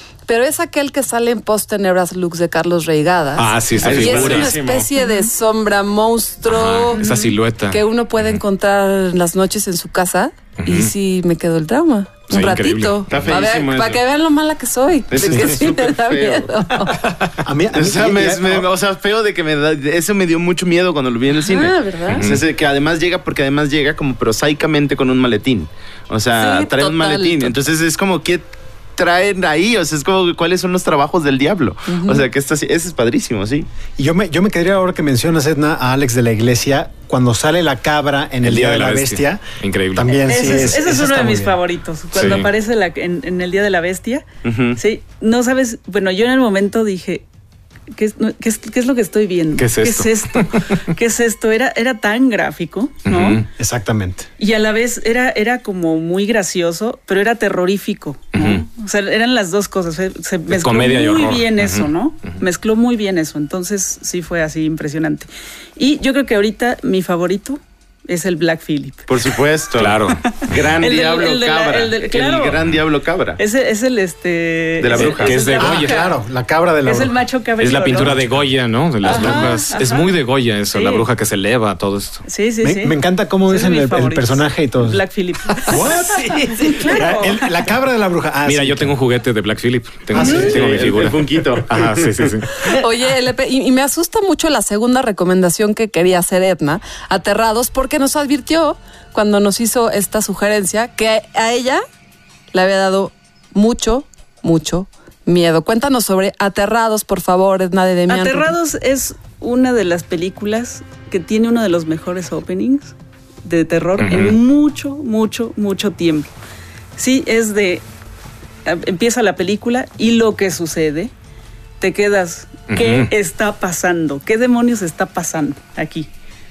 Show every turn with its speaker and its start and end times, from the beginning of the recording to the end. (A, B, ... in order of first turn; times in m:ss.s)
0:00.3-0:17.0 A
0:03.4-0:04.6 B
0:03.8-0:04.9 C
0:06.4-0:08.4 B
0:10.6-0:10.9 B
0:12.3-0:13.4 B
0:13.1-0:14.0 C
0:15.1-0:16.5 C
0:15.2-0:15.6 B
0:17.0-0:17.4 B
0:17.4-0:18.7 D
0:17.7-0:28.4 C
0:21.4-0:22.3 A
0:22.1-0:22.4 B
0:26.3-0:27.6 A
0:29.0-0:33.7 C
0:31.9-0:32.3 A
0:34.0-0:41.6 D
0:38.4-0:40.6 B
0:40.3-0:44.2 E
0:42.2-0:42.5 B
0:44.4-0:44.8 C
0:44.8-0:47.2 E
0:47.9-0:53.4 E
0:49.6-0:50.8 B
0:53.0-0:53.5 B
0:53.6-0:54.3 D
0:54.4-1:09.3 E
0:58.3-0:58.7 B
1:00.5-1:02.4 B
1:09.1-1:13.4 C
1:09.8-1:10.4 B
1:10.2-1:12.6 E
1:13.4-1:16.1 E
1:14.8-1:15.6 C
1:15.0-1:16.0 B
1:15.5-1:17.2 D
1:16.8-1:18.2 E
1:17.6-1:22.2 B
1:17.8-1:18.4 D
1:19.0-1:20.1 E
1:19.1-1:19.4 D
1:20.7-1:21.0 E
1:22.3-1:27.5 E
1:22.6-1:25.0 D
1:25.6-1:29.0 D
1:28.4-1:32.6 B
1:30.2-1:32.3 C
1:30.2-1:30.6 D
1:32.6-1:41.8 A
1:42.5-1:48.6 A
1:48.1-1:52.9 E
1:53.4-1:56.3 E
1:54.0-1:54.4 B
1:57.0-1:57.8 E
1:58.7-2:01.1 E
2:01.8-2:06.1 E
2:02.7-2:03.1 B